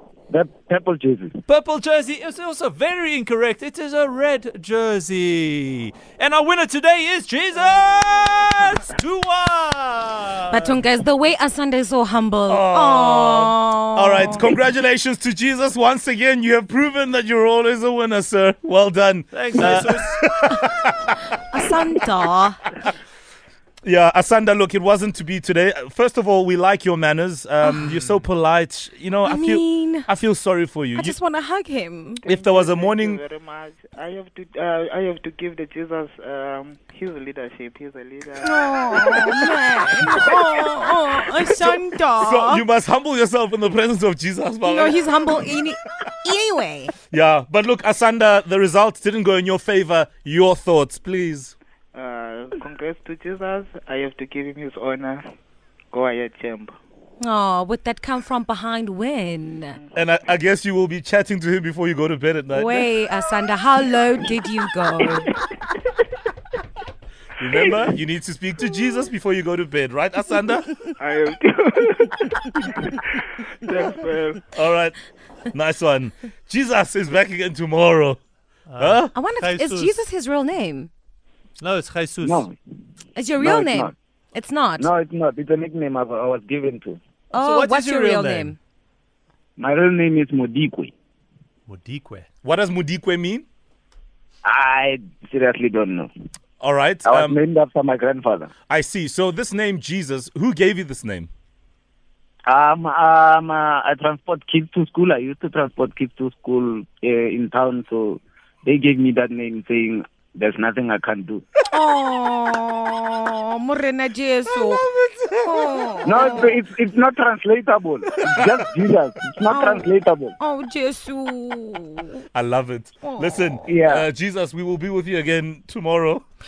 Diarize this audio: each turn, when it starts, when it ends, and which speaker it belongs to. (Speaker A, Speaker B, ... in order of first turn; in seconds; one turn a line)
Speaker A: 0.3-1.4
Speaker B: 1.5-10.8
Speaker C: 8.0-8.8
Speaker D: 10.5-14.5
Speaker E: 12.5-21.3
Speaker B: 19.3-20.2
Speaker D: 21.4-22.7
Speaker E: 23.8-31.1
Speaker D: 27.6-27.9
Speaker B: 27.9-28.2
Speaker D: 29.2-30.1
Speaker D: 30.9-32.2
Speaker C: 32.2-41.2
Speaker E: 32.2-33.2
Speaker D: 38.4-42.6
Speaker E: 41.5-45.5
Speaker D: 44.6-46.9
Speaker E: 47.1-51.5
Speaker C: 51.9-55.2
Speaker C: 55.9-56.7
Speaker D: 57.2-59.8
Speaker E: 59.9-62.9
Speaker D: 62.5-65.3
Speaker C: 65.2-65.8
Speaker E: 67.4-70.7
Speaker C: 71.0-74.4
Speaker E: 74.5-75.0
Speaker E: 75.5-78.2
Speaker B: 78.7-80.0
Speaker E: 78.8-79.1
Speaker D: 79.1-80.9
Speaker B: 81.6-82.5
Speaker A: 82.2-82.5
Speaker D: 83.2-84.9
Speaker A: 83.4-83.9
Speaker A: 84.8-87.0
Speaker D: 87.3-88.5
Speaker B: 87.3-88.5
Speaker A: 89.6-90.9
Speaker B: 91.7-92.3
Speaker E: 92.4-93.4
Speaker A: 94.4-96.1
Speaker E: 96.6-97.3
Speaker A: 97.0-98.5
Speaker E: 98.7-101.3
Speaker A: 102.5-111.4
Speaker D: 111.7-116.6
Speaker A: 116.0-120.3
Speaker D: 119.5-122.2
Speaker E: 122.3-126.2
Speaker D: 123.0-123.6
Speaker A: 123.7-124.1